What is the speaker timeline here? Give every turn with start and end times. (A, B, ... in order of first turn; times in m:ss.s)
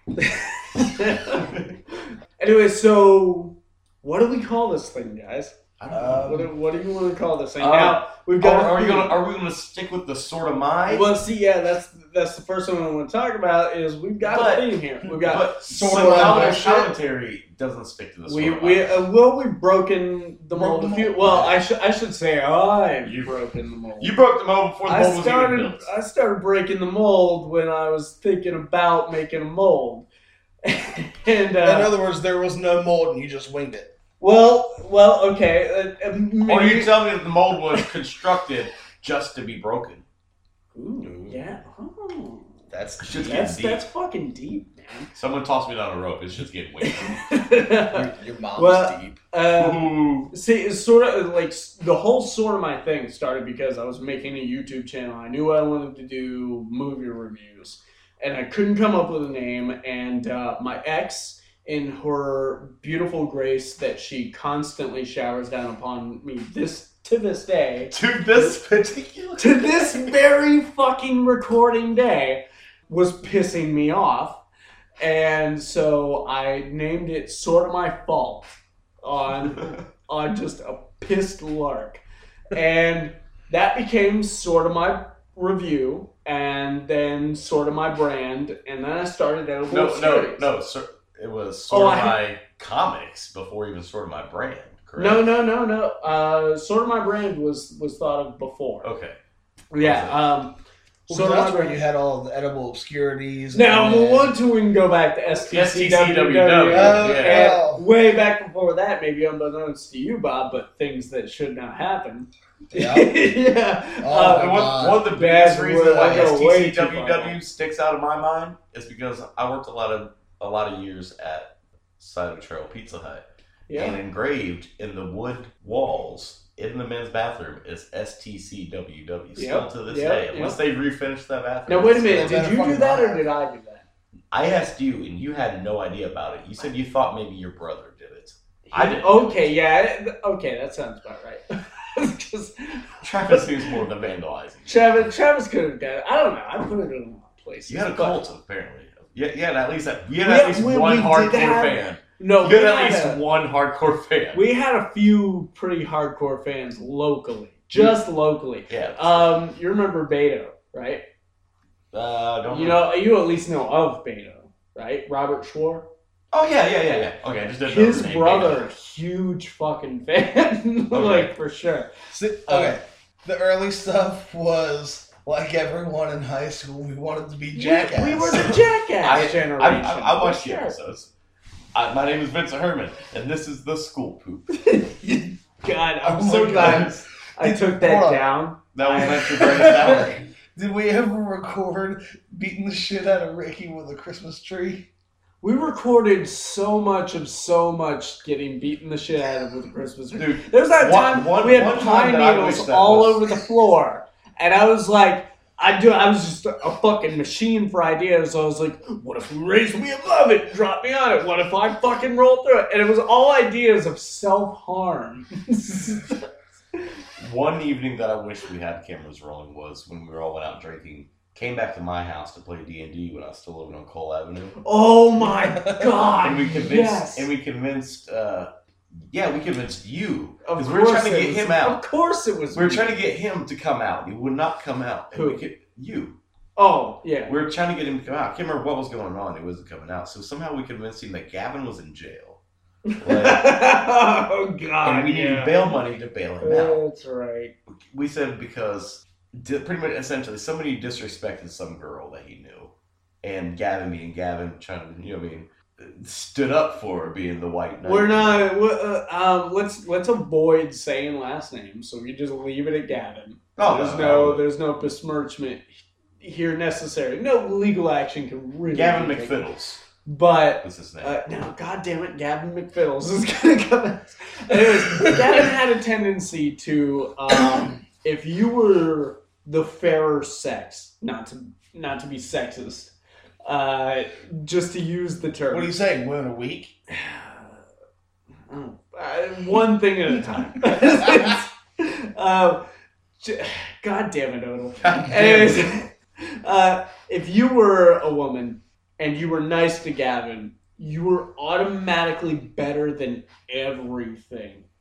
0:00.1-0:05.6 A
0:05.8-0:06.4 B
0:05.9-0:06.5 C
0:06.1-0:09.2 A
0:07.6-0:11.0 B
0:10.8-0:16.7 A
0:14.2-0:19.0 B
0:15.6-0:16.9 C
0:18.2-0:24.1 A
0:20.5-0:21.6 C
0:23.0-0:23.3 B
0:24.0-0:25.9 B
0:24.8-0:30.0 A
0:30.6-0:31.9 A
0:31.6-0:33.9 C
0:34.2-0:37.1 A
0:36.5-0:40.0 B
0:40.7-0:45.1 A
0:41.0-0:41.4 B
0:42.7-0:43.8 B
0:45.1-0:47.2 B
0:46.8-1:08.5 A
0:47.9-0:49.1 C
0:49.4-0:50.3 B
1:07.9-1:10.1 B
1:09.4-1:14.4 A
1:15.0-1:30.5 A
1:29.7-1:35.3 B
1:31.7-1:32.2 A
1:35.0-1:38.9 A
1:38.8-1:39.2 B
1:39.7-1:40.6 A
1:39.8-1:40.2 B
1:41.1-1:41.8 A
1:41.1-1:44.4 C
1:43.5-1:57.4 A
1:45.5-1:47.6 B
1:46.7-1:47.8 C
1:52.7-1:53.1 C
1:54.0-1:55.0 C
1:54.2-2:12.5 B
1:55.9-1:56.3 C
2:03.7-2:04.0 A
2:09.4-2:10.6 A
2:11.7-2:13.8 A
2:12.1-2:13.2 C
2:14.3-2:19.5 B
2:18.7-2:23.8 A
2:23.0-2:25.0 B
2:24.6-2:28.2 A
2:27.7-2:34.4 B
2:30.2-2:33.2 A
2:34.3-2:41.0 A
2:37.7-2:38.0 B
2:38.7-2:39.4 B
2:41.9-2:42.8 B
2:42.5-2:45.9 A
2:46.3-2:48.6 B
2:47.6-2:51.9 A
2:50.9-2:51.3 B
2:52.1-2:58.6 C
2:52.5-2:52.8 A
2:57.5-3:00.8 A
2:59.0-3:01.1 B
3:01.7-3:04.5 B
3:04.5-3:10.0 A
3:06.0-3:08.2 C
3:06.5-3:07.0 B
3:08.7-3:10.2 B
3:09.5-3:10.0 C
3:10.5-3:14.9 C
3:15.4-3:36.9 A
3:20.2-3:23.3 B
3:37.2-3:44.6 B
3:44.6-3:47.3 A
3:45.2-3:46.1 C
3:46.2-3:48.5 B
3:49.1-3:51.8 B
3:50.4-3:53.0 A
3:52.5-3:56.2 B
3:55.1-3:55.5 A
3:56.6-3:57.3 A
3:57.3-4:02.4 B
4:02.8-4:05.8 A
4:03.0-4:03.4 B
4:04.8-4:06.8 B
4:06.4-4:07.5 A
4:07.9-4:12.7 B
4:13.2-4:18.4 B
4:17.8-4:29.4 A
4:23.6-4:24.4 B
4:28.7-4:29.8 B
4:30.0-4:42.9 A
4:30.6-4:31.2 B
4:43.4-4:45.7 A
4:45.5-4:46.7 C
4:46.9-4:47.6 A
4:48.5-4:52.6 A
4:53.2-5:04.6 A
4:54.8-4:55.8 B